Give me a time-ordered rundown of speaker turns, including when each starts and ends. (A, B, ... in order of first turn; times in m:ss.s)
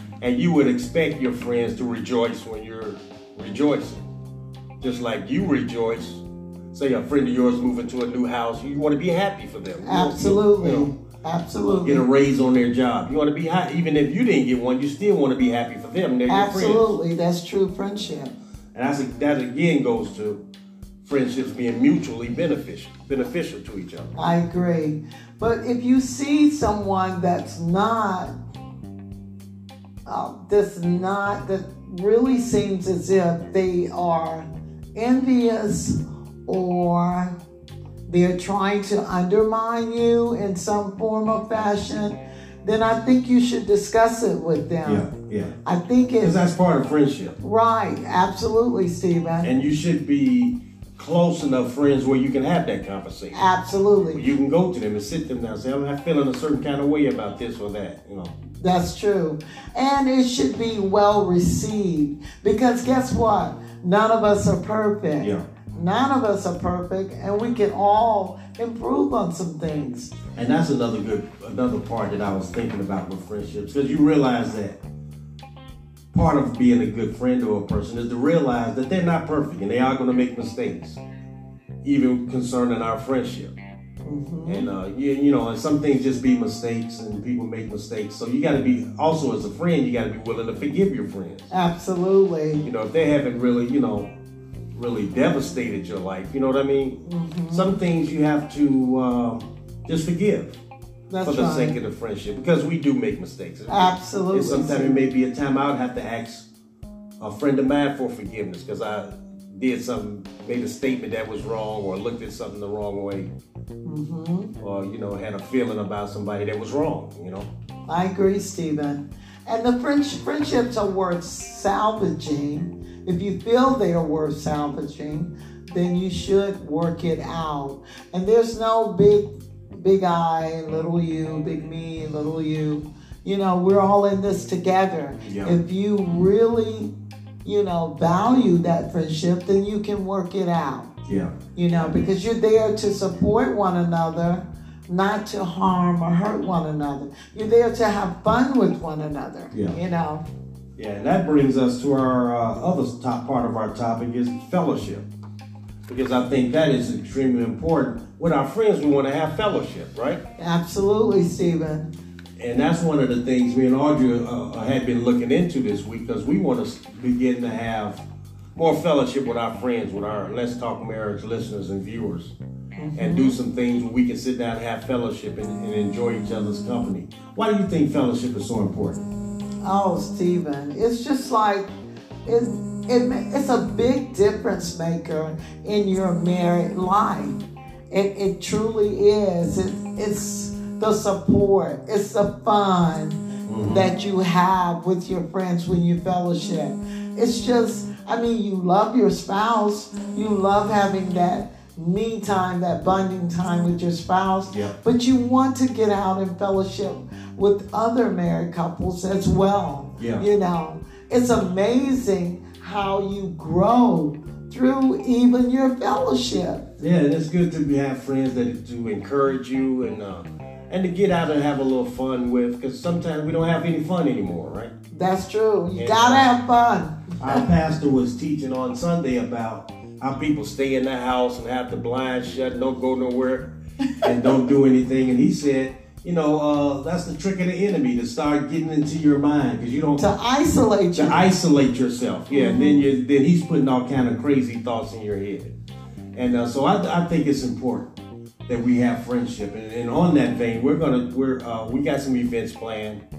0:00.2-0:04.0 A
0:04.8-0:10.9 A
0:09.8-0:12.1 B
0:11.7-0:16.9 A
0:16.3-0:18.3 B
0:18.8-0:20.4 A
0:21.0-0:24.1 A
0:24.2-0:28.3 B
0:30.1-0:37.4 B
0:38.1-0:45.0 B
0:44.8-0:45.6 A
0:45.6-0:46.4 B
0:46.2-0:47.4 A
0:47.4-0:49.5 B
0:49.4-0:53.5 A
0:53.3-0:54.2 B
0:54.1-0:58.3 A
0:58.6-1:10.2 B
1:10.4-1:14.8 A
1:16.1-1:21.0 A
1:21.8-1:23.5 A
1:24.0-1:24.7 B
1:24.5-1:31.5 A
1:31.5-1:32.6 B
1:32.6-1:34.1 A
1:34.7-1:37.0 A
1:37.1-1:37.8 B
1:37.5-1:40.6 A
1:41.1-1:41.8 B
1:41.2-1:46.5 A
1:43.7-1:45.1 B
1:47.2-1:53.3 A
1:53.8-1:54.5 B
1:54.6-1:57.5 A
1:57.9-2:16.9 B
2:15.2-2:15.6 A
2:17.4-2:20.9 B
2:21.1-2:22.0 A
2:21.6-2:30.2 B
2:29.5-2:29.8 A
2:30.8-2:35.0 A
2:35.9-2:40.2 A
2:40.4-2:41.9 B
2:42.4-2:48.0 A
2:48.6-2:52.3 A
2:52.8-2:53.4 B
2:53.0-2:59.1 A
2:59.6-3:01.7 B
3:02.2-3:36.7 B
3:13.5-3:13.9 A
3:30.0-3:30.2 A
3:36.8-3:44.7 A
3:44.9-3:47.4 B
3:45.8-3:46.3 A
3:47.2-3:53.5 A
3:54.0-4:00.1 A
4:00.0-4:01.2 B
4:01.0-4:05.5 A
4:02.3-4:02.8 B
4:06.2-4:07.9 A
4:08.5-4:13.0 A